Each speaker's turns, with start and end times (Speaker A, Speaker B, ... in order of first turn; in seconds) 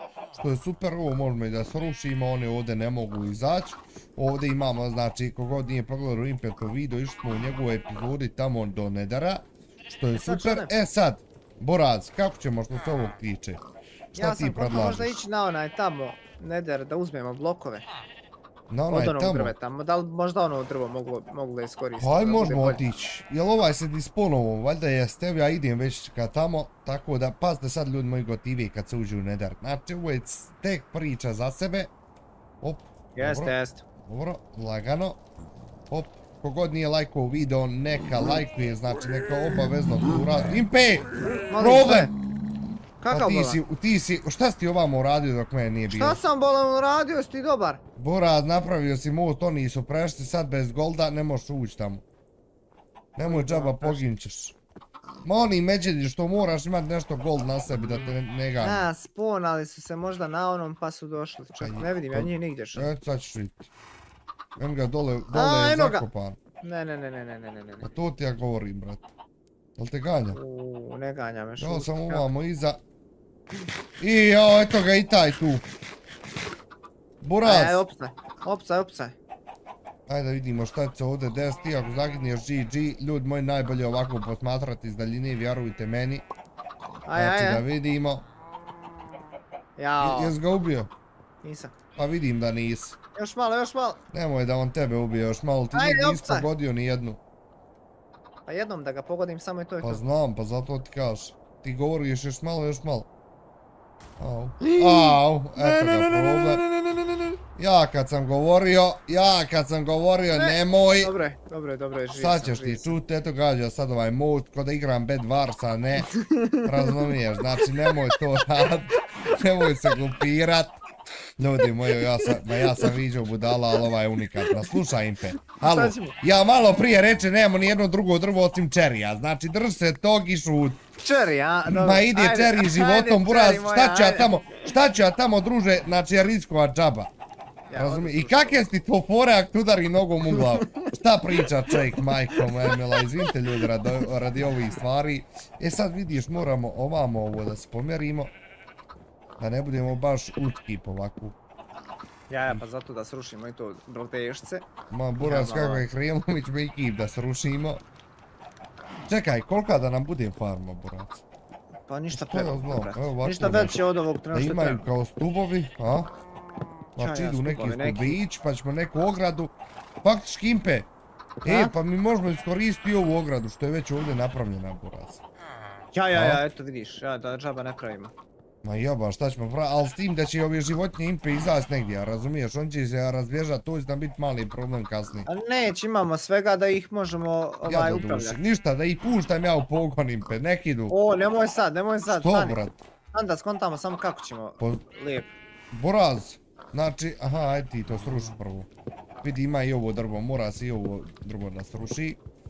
Speaker A: 0.3-13.6, 14.1-15.2, 18.7-19.5, 22.0-31.9, 32.6-33.5, 34.1-35.2, 35.9-42.2, 43.1-46.2, 48.0-52.0, 53.2-54.6, 55.2-58.9, 61.6-63.7, 64.6-66.4, 67.8-69.0, 69.8-70.4, 71.6-72.8, 74.0-75.6, 77.2-77.8, 80.1-86.2, 87.2-88.3, 90.0-90.9, 92.0-93.0, 94.1-97.2, 99.8-103.1, 104.2-106.7, 107.5-111.1, 112.2-120.8, 121.4-130.8, 131.7-137.1, 137.7-148.3, 149.4-151.4, 154.9-157.8, 159.1-161.2, 162.1-163.8, 164.3-166.1, 167.0-170.9, 171.4-175.2, 176.1-176.4, 178.6-185.3, 187.7-191.0, 192.1-192.8, 195.7-198.7, 199.2-202.2
Speaker B: 10.2-10.7, 14.2-17.9, 18.9-22.8, 33.1-33.8, 41.5-42.1, 43.0-43.6, 45.9-47.8, 53.2-54.1, 58.6-62.9, 65.3-66.1, 66.6-67.9, 70.3-72.3, 77.4-79.2, 87.1-87.7, 89.8-90.4, 91.4-91.7, 93.2-94.0, 95.7-96.5, 98.5-100.0, 104.6-107.4, 110.3-113.0, 116.1-118.1, 119.6-120.0, 121.6-122.9, 124.4-124.8, 125.5-126.2, 131.0-134.3, 137.7-138.6, 140.3-140.9, 141.4-144.1, 152.3-154.7, 155.2-155.8, 161.9-164.8, 167.0-168.2, 171.4-171.7, 175.9-178.1, 185.3-188.4, 190.9-192.6, 193.1-195.3